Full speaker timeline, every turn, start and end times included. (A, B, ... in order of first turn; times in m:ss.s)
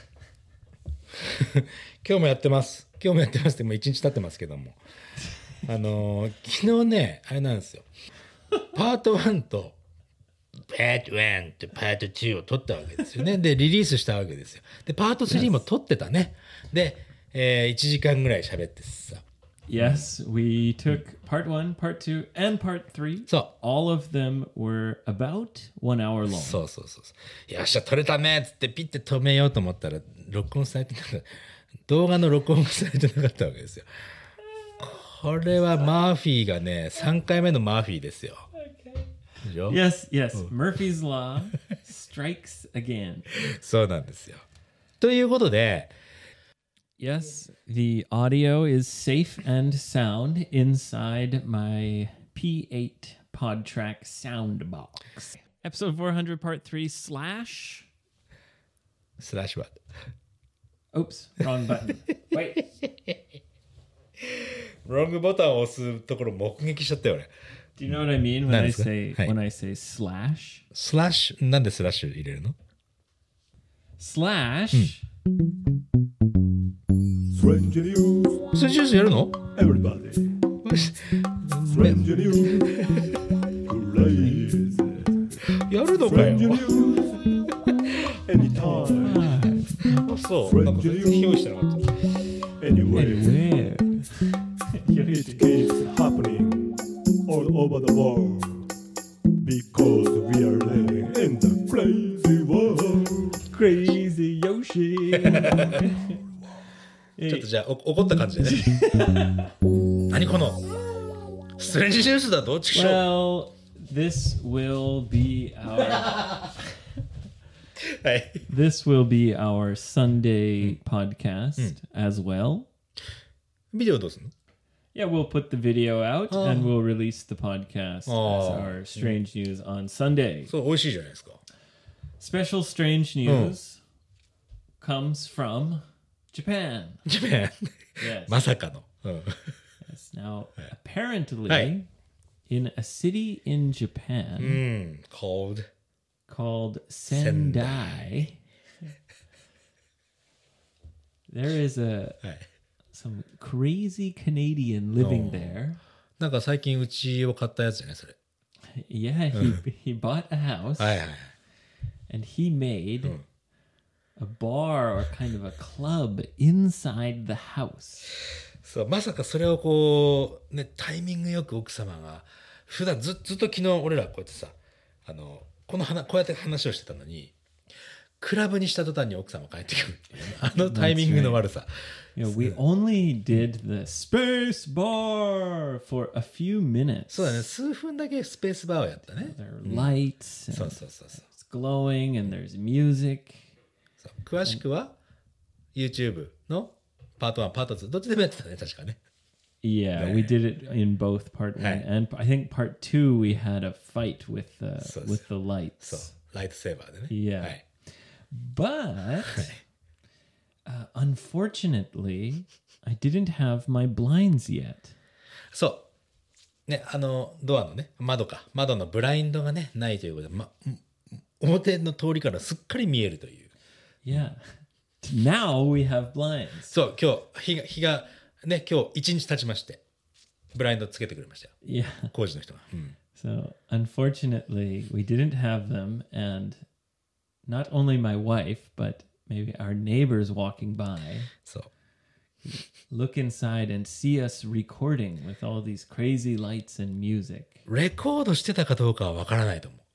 0:01.2-0:04.8 A
0:05.6-0:07.9 A
0:08.7-0:09.8 A
0:10.7-0:19.2 A
0:15.3-0:15.6 B
0:19.7-0:26.6 B
0:19.8-0:20.0 A
0:26.2-0:34.1 A
0:34.5-0:34.9 B
0:34.8-0:38.5 A
0:38.5-0:43.3 B
0:39.4-0:39.8 A
0:43.3-0:44.4 A
0:45.0-0:45.9 A
0:47.0-0:57.9 B
0:59.2-0:59.8 A
1:00.9-1:02.6 B
1:02.8-1:03.2 A
1:04.2-1:07.3 A
1:07.8-1:10.6 B
1:08.4-1:09.3 A
1:10.7-1:12.6 A
1:14.0-1:15.0 B
1:17.3-1:18.5 C
1:18.5-1:19.4 A
1:19.5-1:20.4 C
1:20.6-1:22.0 A
1:21.6-1:22.8 C
1:22.6-1:23.3 A
1:23.6-1:25.4 C
1:24.2-1:24.6 B
1:25.5-1:28.2 A
1:26.0-1:26.3 B
1:26.0-1:27.3 C
1:28.2-1:29.3 C
1:28.6-1:30.1 B
1:29.9-1:32.0 A
1:30.4-1:31.4 C
1:32.6-1:33.4 C
1:32.9-1:35.5 B
1:35.0-1:38.7 C
1:39.4-1:43.4 C
1:43.5-1:46.2 B
1:45.2-1:45.8 A
1:47.2-1:47.5 B
1:47.2-1:48.6 A
1:48.4-1:49.5 B
1:50.1-1:50.6 A
1:51.6-1:53.0 A
1:52.7-1:56.6 B
1:55.9-1:56.3 A
1:57.8-1:58.5 A
1:58.5-2:02.7 B
2:03.7-2:04.3 A
2:04.9-2:10.5 B
2:06.3-2:06.7 A
2:08.0-2:09.2 A
2:10.5-2:11.4 A
2:12.2-2:13.8 B
2:13.2-2:13.6 A
2:14.8-2:17.0 B
2:17.0-2:19.6 A
2:18.0-2:18.4 B
2:19.8-2:21.8 B
2:22.5-2:24.6 B
2:24.4-2:25.7 A
2:26.3-2:28.4 B
2:27.1-2:28.3 A
2:31.3-2:32.2 B
2:32.9-2:35.8 B
2:35.0-2:35.6 A
2:36.2-2:38.2 A
2:38.7-2:41.0 B
2:39.3-2:39.6 A
2:40.8-2:41.3 A
2:42.1-2:43.2 B
2:44.2-2:48.1 B
2:48.6-2:57.3 A
2:58.2-3:01.7 A
3:00.2-3:01.4 B
3:02.2-3:07.4 B
3:02.2-3:02.6 A
3:07.1-3:10.0 A
3:09.1-3:13.5 B
3:10.5-3:11.2 A
3:14.0-3:14.9 A
3:15.7-3:19.0 A
3:19.6-3:26.2 B
3:19.9-3:20.3 A
3:21.6-3:21.8 A
3:24.8-3:25.2 A
3:25.8-3:27.6 A
3:27.1-3:27.6 B
3:28.3-3:29.5 B
3:29.3-3:29.6 A
3:30.6-3:34.9 B
3:35.5-3:35.8 A
3:36.7-3:43.5 A
3:44.0-3:46.8 B
3:46.7-3:49.8 A
3:50.5-3:51.5 A
3:51.6-3:52.1 B
3:52.1-3:53.0 A
3:53.1-3:56.6 B
3:57.5-4:01.3 B
4:01.4-4:01.7 A
4:02.4-4:07.6 B
4:07.6-4:09.8 A